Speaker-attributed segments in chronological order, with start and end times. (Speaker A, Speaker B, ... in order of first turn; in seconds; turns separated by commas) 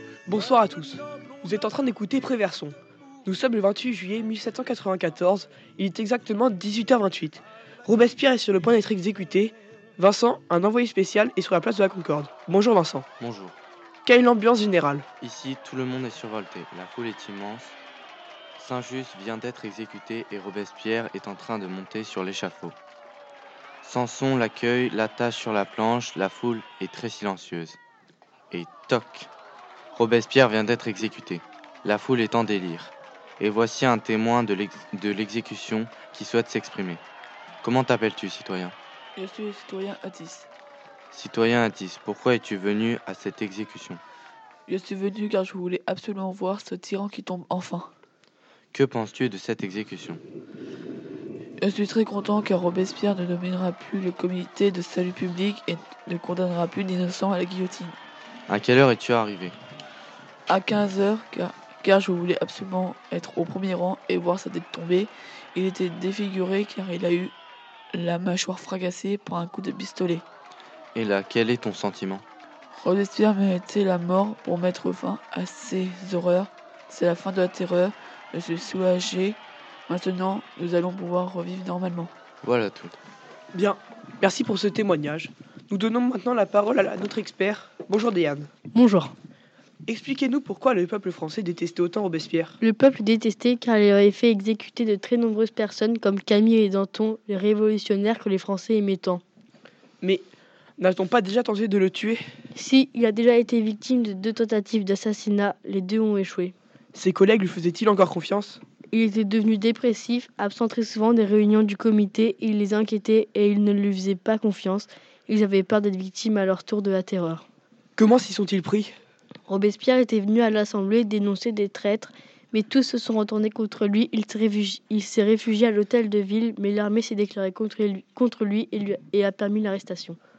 Speaker A: 0.3-13.1, Speaker B: 13.2-13.6, Speaker A: 14.1-15.1, Speaker B: 15.2-17.8, Speaker B: 18.6-22.7, Speaker B: 23.8-27.8, Speaker B: 28.5-29.3, Speaker B: 29.9-37.0, Speaker B: 37.6-38.7, Speaker C: 39.1-40.5, Speaker B: 41.1-44.0, Speaker C: 44.7-47.9, Speaker B: 48.7-50.2, Speaker C: 51.6-58.0, Speaker B: 58.5-59.5, Speaker C: 60.5-67.3, Speaker C: 67.9-70.2, Speaker B: 70.9-72.2, Speaker C: 72.8-82.1, Speaker B: 82.4-83.0, Speaker A: 83.5-88.5, Speaker D: 88.7-89.1, Speaker A: 89.9-92.5, Speaker D: 92.6-99.2, Speaker A: 100.8-102.2, Speaker D: 102.5-106.5, Speaker A: 106.9-108.6, Speaker D: 108.9-117.5, Speaker A: 118.0-118.9, Speaker D: 119.5-130.2